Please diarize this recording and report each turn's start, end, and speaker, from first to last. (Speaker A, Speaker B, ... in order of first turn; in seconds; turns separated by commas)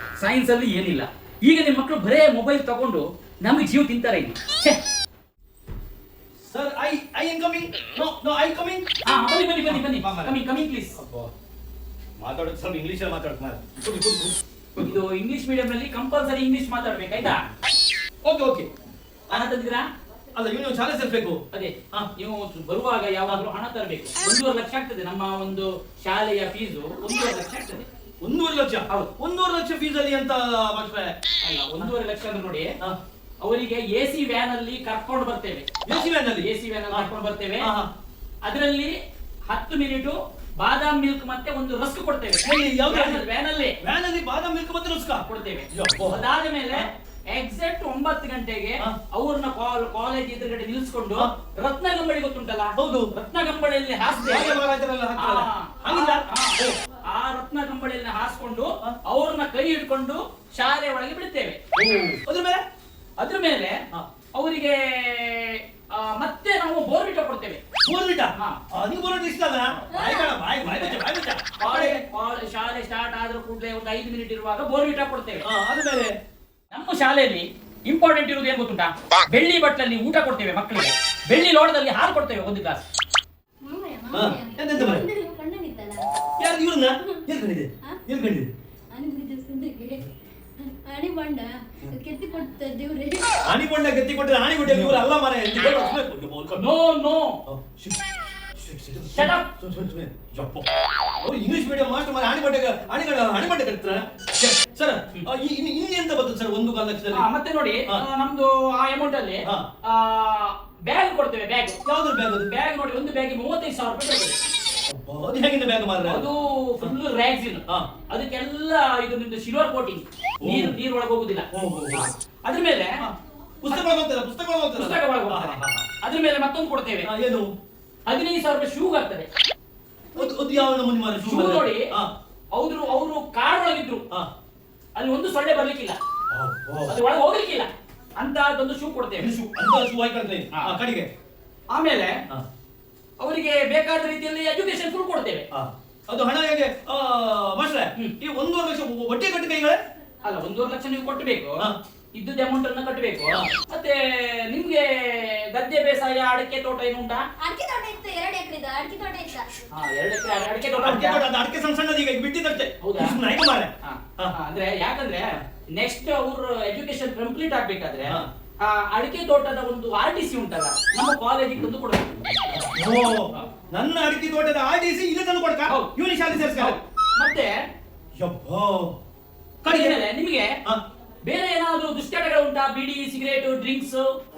Speaker A: 0.2-4.8, Speaker B: 6.5-8.8, Speaker A: 9.1-11.0, Speaker B: 9.7-10.4, Speaker B: 11.0-11.3, Speaker B: 12.2-15.0, Speaker A: 14.8-17.4, Speaker B: 18.2-18.7, Speaker A: 19.3-19.9, Speaker B: 20.3-22.1, Speaker A: 21.5-27.9, Speaker B: 28.2-31.1, Speaker A: 31.4-32.7, Speaker A: 33.4-35.7, Speaker B: 35.9-37.1, Speaker A: 36.4-37.7, Speaker B: 37.6-37.9, Speaker A: 38.4-38.9, Speaker A: 39.5-43.8, Speaker B: 42.4-43.2, Speaker B: 43.8-46.9, Speaker A: 45.2-54.6, Speaker B: 52.8-53.1, Speaker B: 54.1-56.8, Speaker A: 55.2-61.6, Speaker B: 61.7-62.6, Speaker A: 63.2-63.8, Speaker A: 64.3-67.6, Speaker B: 67.8-72.0, Speaker C: 69.9-70.3, Speaker A: 70.6-71.0, Speaker A: 71.6-75.4, Speaker B: 75.4-76.1, Speaker A: 76.7-82.8, Speaker C: 83.6-86.1, Speaker B: 84.1-85.1, Speaker B: 86.4-88.5, Speaker C: 88.9-90.1, Speaker C: 90.6-93.3, Speaker B: 93.4-96.7, Speaker A: 96.5-97.4, Speaker B: 97.5-98.0, Speaker B: 98.6-100.7, Speaker A: 99.1-99.5, Speaker B: 101.2-107.3, Speaker A: 107.1-111.8, Speaker B: 111.8-112.5, Speaker A: 112.5-114.4, Speaker B: 114.9-116.2, Speaker A: 116.0-123.0, Speaker B: 120.4-120.8, Speaker B: 121.5-122.1, Speaker B: 123.0-125.8, Speaker A: 123.7-123.9, Speaker A: 124.8-127.1, Speaker B: 127.0-127.5, Speaker A: 128.1-129.3, Speaker B: 130.1-132.1, Speaker A: 131.2-131.9, Speaker A: 132.5-134.1, Speaker A: 135.0-136.0, Speaker B: 136.3-137.0, Speaker A: 136.9-139.3, Speaker B: 139.2-141.1, Speaker A: 141.7-142.2, Speaker A: 143.2-145.4, Speaker B: 145.5-149.8, Speaker A: 150.2-157.2, Speaker C: 157.4-159.5, Speaker A: 159.7-161.2, Speaker B: 160.8-164.3, Speaker A: 162.8-163.2, Speaker A: 163.8-172.2, Speaker B: 172.5-176.8, Speaker A: 175.7-175.9, Speaker A: 176.6-177.5, Speaker B: 178.2-178.9, Speaker A: 179.6-180.5, Speaker B: 179.6-180.0, Speaker A: 181.2-184.0